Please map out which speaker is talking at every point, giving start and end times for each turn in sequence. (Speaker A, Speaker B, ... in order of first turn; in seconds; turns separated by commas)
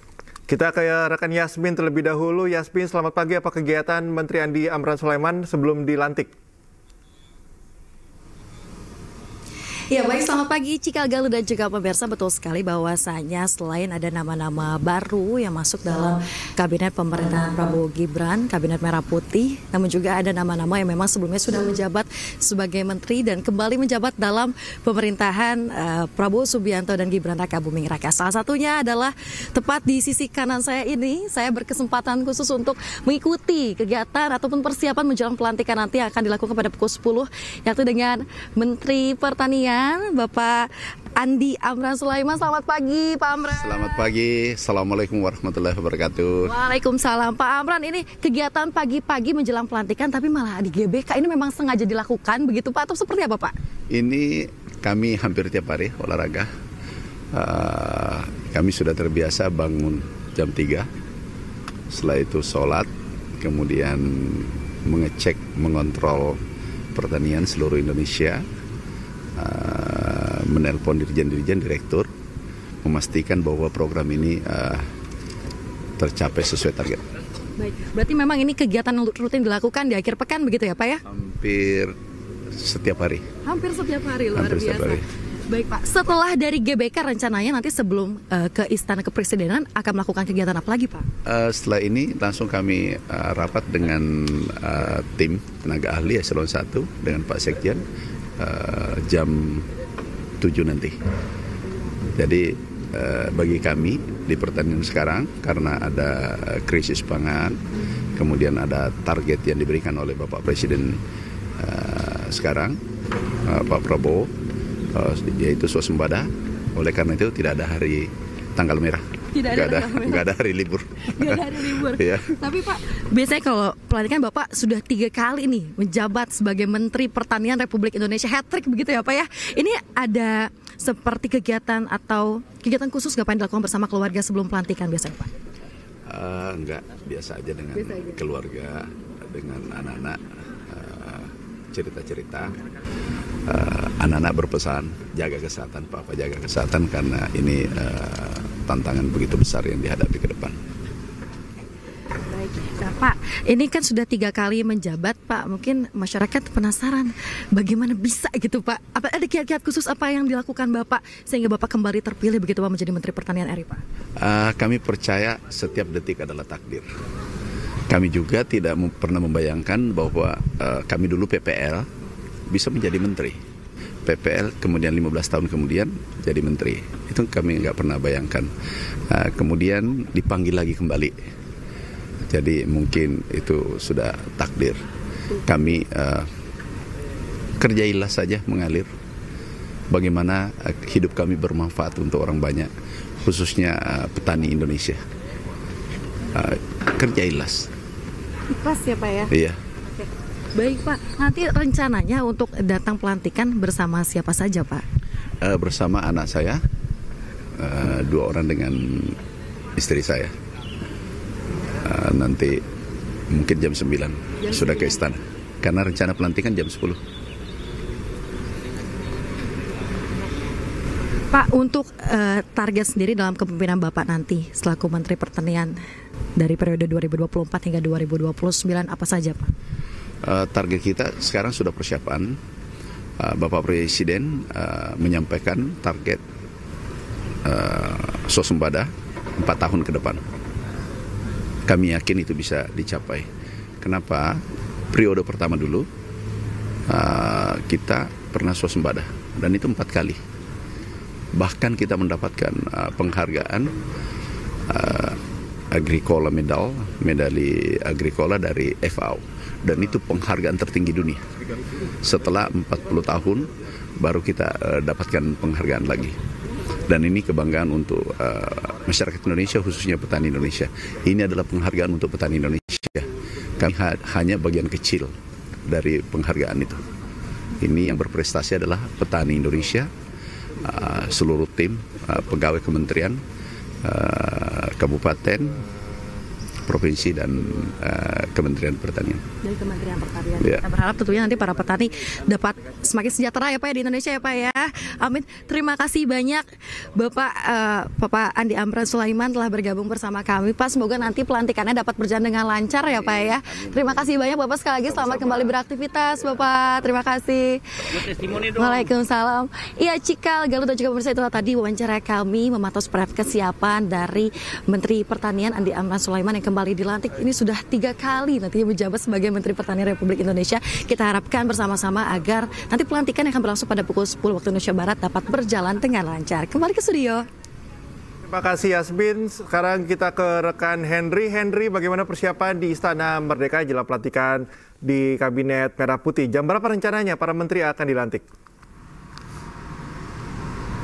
Speaker A: 0.5-6.3, Speaker B: 9.9-44.0, Speaker C: 43.6-46.5, Speaker B: 46.4-53.5, Speaker C: 53.9-56.5, Speaker C: 57.3-60.9, Speaker C: 61.9-62.9, Speaker C: 63.4-66.4, Speaker C: 66.9-68.4, Speaker C: 69.4-72.1, Speaker C: 72.8-74.8, Speaker C: 76.0-77.0, Speaker B: 77.6-81.0, Speaker C: 81.1-81.9, Speaker C: 82.5-83.2, Speaker B: 83.4-91.0, Speaker C: 84.3-85.0, Speaker C: 91.2-97.8, Speaker C: 98.4-99.7, Speaker C: 100.4-101.0, Speaker C: 102.2-107.6, Speaker C: 108.2-111.0, Speaker C: 111.6-112.8, Speaker C: 113.4-114.3, Speaker C: 114.9-122.3, Speaker B: 119.3-120.3, Speaker B: 121.1-135.3, Speaker C: 136.1-142.5, Speaker B: 137.8-138.2, Speaker C: 143.5-150.6, Speaker B: 152.3-163.8, Speaker C: 164.2-166.8, Speaker C: 167.9-171.9, Speaker C: 172.5-173.4, Speaker C: 174.1-178.5, Speaker C: 179.1-181.2, Speaker C: 182.3-184.8, Speaker C: 185.4-186.3, Speaker C: 187.6-188.9, Speaker C: 189.9-192.7, Speaker C: 193.2-195.0, Speaker C: 196.3-197.7, Speaker B: 198.5-199.3, Speaker C: 199.3-199.6, Speaker B: 200.5-204.8, Speaker C: 205.4-206.6, Speaker C: 207.6-209.2, Speaker C: 209.8-210.3, Speaker C: 211.8-212.6, Speaker C: 213.3-217.0, Speaker B: 214.5-215.0, Speaker B: 221.3-225.8, Speaker B: 226.4-229.5, Speaker C: 230.2-232.4, Speaker C: 233.2-236.2, Speaker C: 237.4-240.2, Speaker C: 241.7-243.3, Speaker C: 243.8-244.4, Speaker C: 244.9-245.9, Speaker C: 246.9-250.2, Speaker C: 251.3-253.7, Speaker C: 254.7-255.2, Speaker C: 255.7-261.2, Speaker C: 262.0-266.1, Speaker C: 266.9-273.1, Speaker C: 273.6-275.1, Speaker C: 275.7-276.8, Speaker C: 277.6-279.9, Speaker C: 280.6-283.2, Speaker C: 283.8-285.6, Speaker C: 286.6-289.2, Speaker B: 289.4-327.2, Speaker C: 303.0-304.1, Speaker C: 305.1-305.5, Speaker A: 328.3-338.2